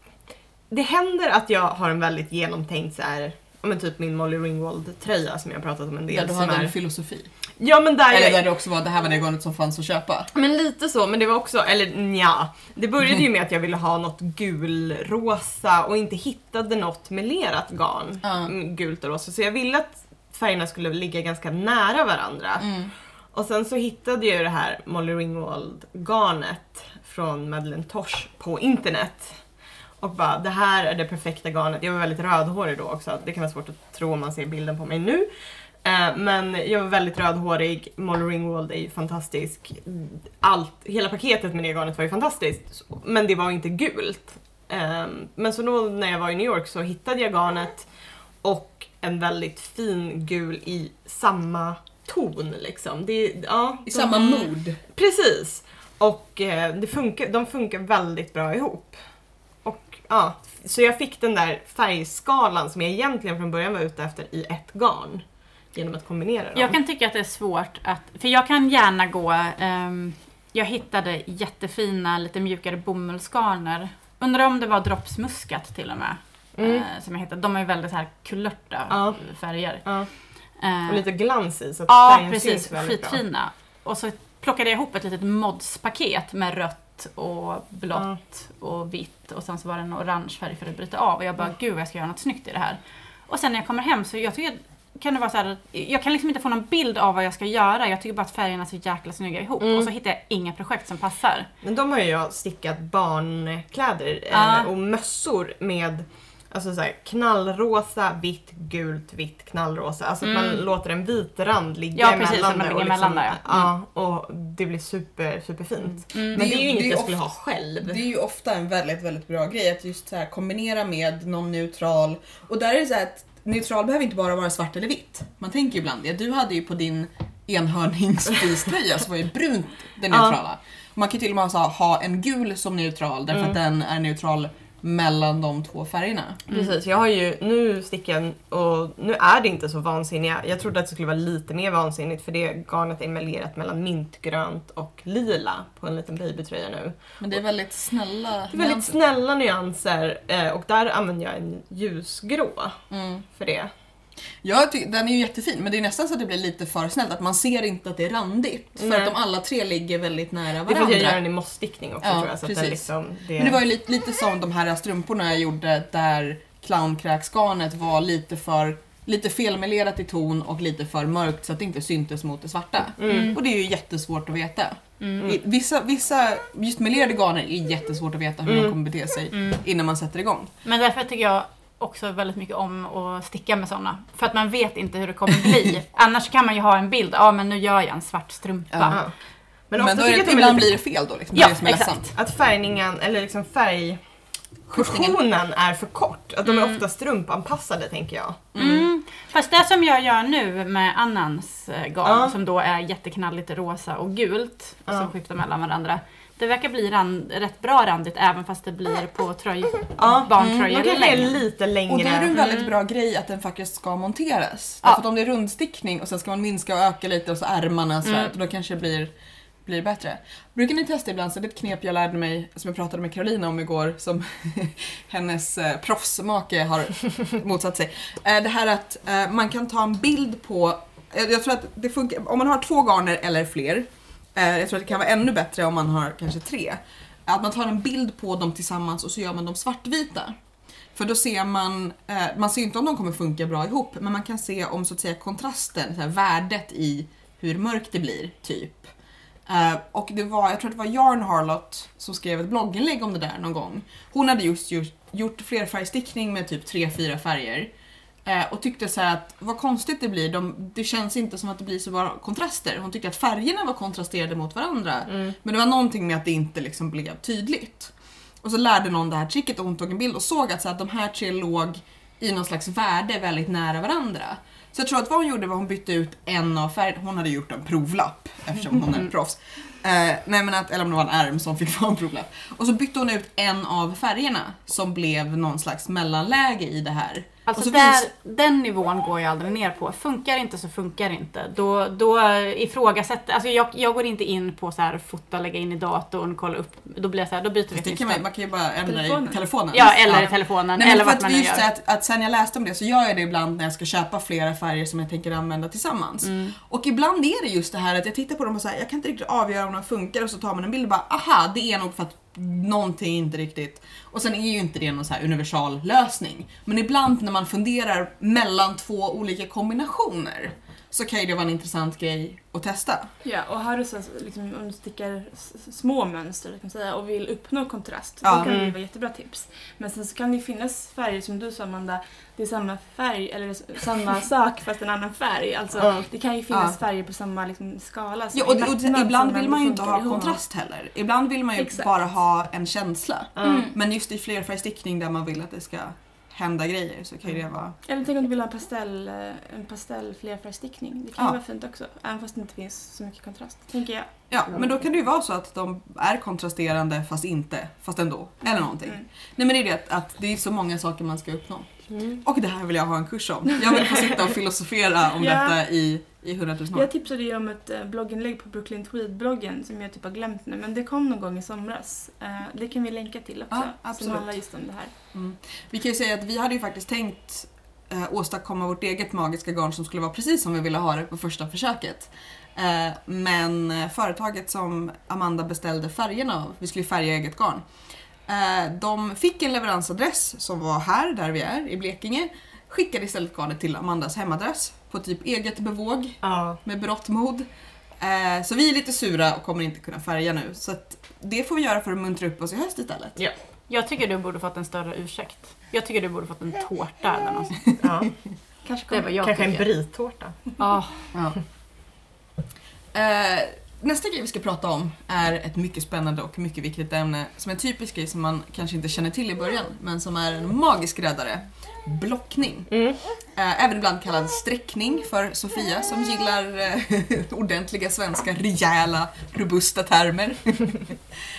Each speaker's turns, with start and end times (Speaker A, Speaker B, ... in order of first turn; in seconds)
Speaker A: 0.7-6.7, 7.6-8.4, 10.3-29.4, 30.0-35.3, 35.8-47.9, 48.4-59.0, 59.6-66.8, 76.6-76.8, 78.9-79.2, 79.8-80.1, 80.8-83.2, 87.9-88.2, 99.6-99.9, 101.6-118.0, 130.1-130.3, 136.5-147.2, 148.5-153.7, 158.8-159.1, 160.6-163.6, 173.0-173.3, 178.4-178.7, 188.9-189.2, 189.7-190.7, 192.1-194.0, 194.7-198.5, 202.0-202.3, 210.0-212.3, 265.1-265.3, 328.4-328.7, 335.8-336.1, 343.4-343.7, 361.9-362.2, 396.2-396.6, 407.8-408.2, 409.1-410.4, 422.7-423.0
Speaker B: 6.1-7.3, 8.1-10.3, 18.2-18.5, 22.6-22.9, 53.9-54.8, 116.3-117.2, 117.8-136.4, 147.2-149.0, 152.9-153.2, 154.4-161.2, 162.0-180.5, 188.7-189.0, 189.8-192.1, 194.7-195.2, 198.5-198.9, 210.3-210.7, 211.9-219.1, 219.6-240.3, 240.9-248.9, 249.4-257.7, 258.2-288.1, 297.7-323.1, 328.2-328.5, 336.5-336.8, 338.3-347.8, 354.3-366.9, 373.5-374.3, 375.1-387.6, 388.2-397.5, 398.0-403.2, 412.9-431.0
Speaker C: 66.5-81.1, 81.9-101.5, 104.3-104.7, 110.2-110.6, 111.9-113.7, 116.1-116.4, 173.0-173.4, 175.0-175.3, 179.3-179.6, 180.6-189.0, 191.3-192.0, 196.4-196.8, 198.6-211.4, 212.3-212.7, 218.0-218.3, 287.4-298.2, 299.7-301.6, 306.2-306.6, 403.7-407.7, 408.9-409.7, 410.6-411.0
Speaker D: 298.8-299.4, 323.2-340.4, 341.6-341.9, 343.4-343.8, 347.9-354.2, 358.4-359.1, 365.2-365.6, 366.7-374.9, 408.6-409.0